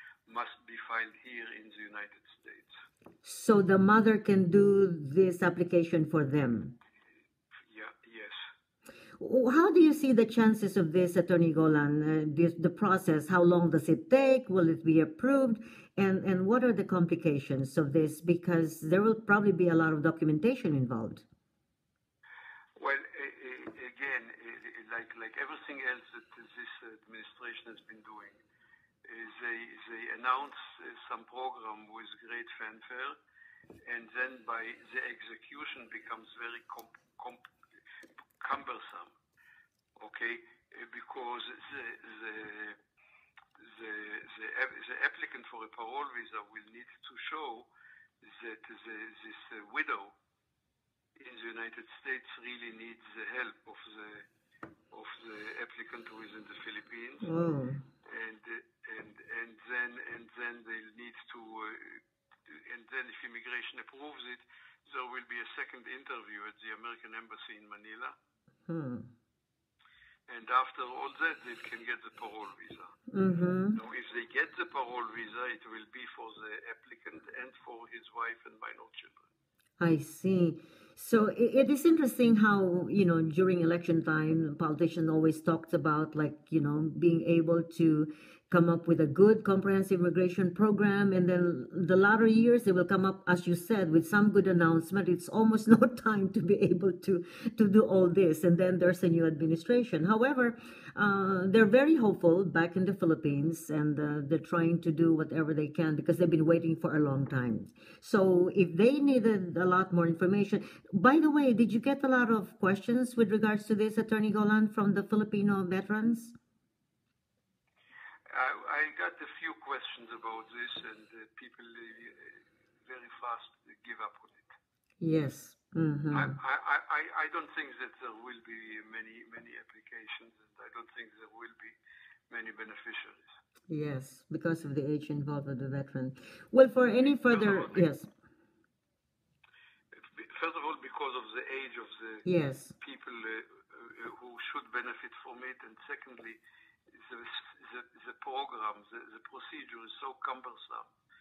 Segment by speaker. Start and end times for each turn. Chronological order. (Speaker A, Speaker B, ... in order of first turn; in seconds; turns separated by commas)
Speaker A: 0.3-2.7, Speaker B: 3.2-6.7, Speaker A: 7.7-8.5, Speaker B: 9.2-21.2, Speaker A: 22.8-28.4, Speaker A: 29.0-33.2, Speaker A: 33.9-37.4, Speaker A: 38.4-39.1, Speaker A: 40.0-42.8, Speaker A: 43.6-47.7, Speaker A: 48.2-50.1, Speaker A: 51.2-54.2, Speaker A: 54.9-57.3, Speaker B: 57.2-57.8, Speaker A: 58.0-68.1, Speaker B: 68.7-69.1, Speaker A: 70.3-73.0, Speaker B: 73.1-73.8, Speaker A: 73.7-79.3, Speaker B: 79.8-116.3, Speaker A: 118.3-124.5, Speaker B: 125.0-126.3, Speaker A: 126.1-131.8, Speaker A: 132.3-133.3, Speaker B: 133.7-138.1, Speaker A: 137.3-137.7, Speaker A: 139.9-146.4, Speaker B: 142.2-142.7, Speaker A: 146.9-150.9